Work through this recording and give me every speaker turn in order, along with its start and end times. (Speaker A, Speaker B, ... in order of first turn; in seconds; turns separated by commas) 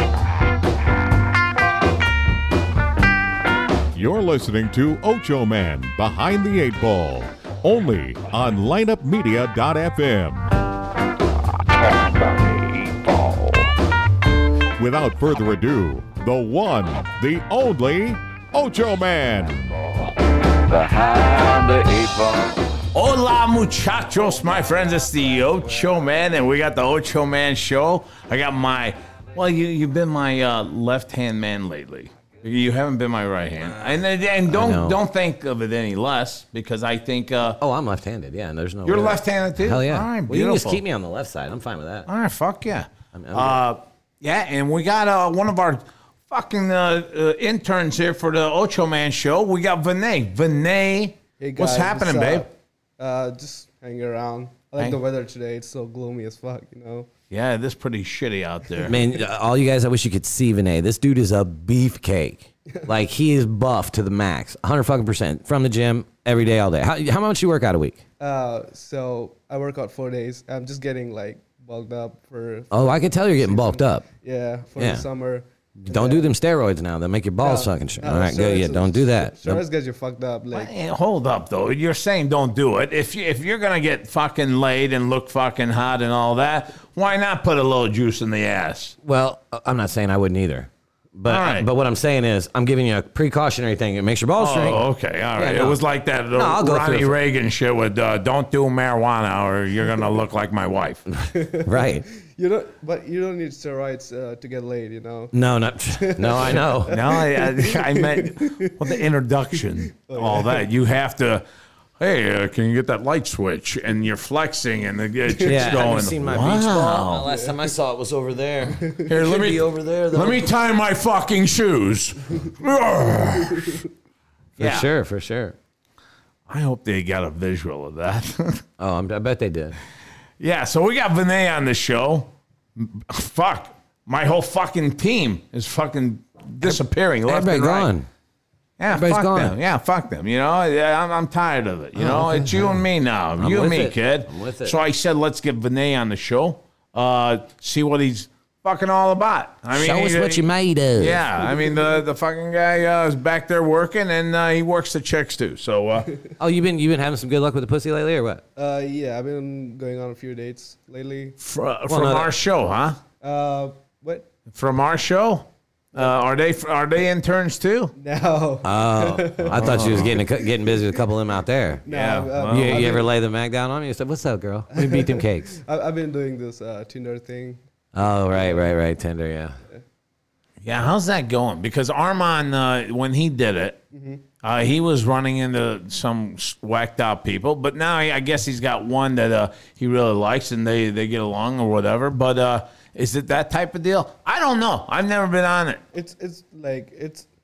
Speaker A: 3.9-10.5, Speaker B: 12.0-13.7, Speaker A: 14.8-19.6, Speaker B: 20.7-22.6, Speaker C: 22.9-37.6, Speaker D: 33.6-35.0, Speaker D: 37.6-42.1, Speaker C: 38.9-40.8, Speaker C: 42.1-52.5, Speaker D: 43.1-43.6, Speaker E: 51.4-57.1, Speaker C: 57.3-59.0, Speaker D: 58.9-68.0, Speaker E: 68.2-76.3, Speaker D: 72.7-74.0, Speaker D: 74.8-75.0, Speaker D: 75.9-79.6, Speaker E: 77.4-80.7, Speaker C: 80.5-89.0, Speaker D: 89.0-94.8, Speaker C: 91.3-91.7, Speaker C: 94.4-101.0, Speaker D: 95.4-95.8, Speaker D: 96.3-97.2, Speaker E: 101.3-105.3, Speaker D: 101.7-102.1, Speaker D: 105.3-107.0, Speaker E: 105.9-109.0, Speaker C: 106.9-111.4, Speaker E: 109.6-110.7, Speaker C: 112.0-117.3, Speaker D: 115.4-120.5, Speaker E: 115.5-115.8, Speaker E: 117.2-117.6, Speaker E: 118.7-119.0, Speaker C: 119.1-123.8, Speaker E: 123.3-123.9, Speaker C: 124.6-124.9, Speaker D: 124.6-125.6, Speaker C: 126.5-128.6, Speaker D: 128.8-129.8, Speaker C: 130.4-137.9, Speaker D: 136.6-138.1, Speaker C: 138.8-156.1, Speaker D: 138.9-139.6, Speaker D: 142.0-142.8, Speaker D: 143.4-144.8, Speaker D: 149.7-151.2, Speaker E: 151.4-152.0, Speaker D: 156.4-158.4, Speaker E: 158.6-161.4, Speaker C: 161.4-163.0, Speaker D: 161.9-162.3, Speaker E: 163.2-164.3, Speaker C: 164.5-167.9, Speaker E: 165.9-166.2, Speaker E: 167.9-171.0, Speaker D: 168.6-171.8, Speaker C: 169.5-170.1, Speaker E: 171.9-173.1, Speaker C: 171.9-172.9, Speaker D: 172.5-175.6, Speaker E: 174.7-177.6, Speaker D: 177.9-179.6, Speaker E: 178.3-178.7, Speaker C: 180.6-183.8, Speaker E: 183.9-184.2, Speaker C: 184.4-195.8, Speaker E: 195.9-197.3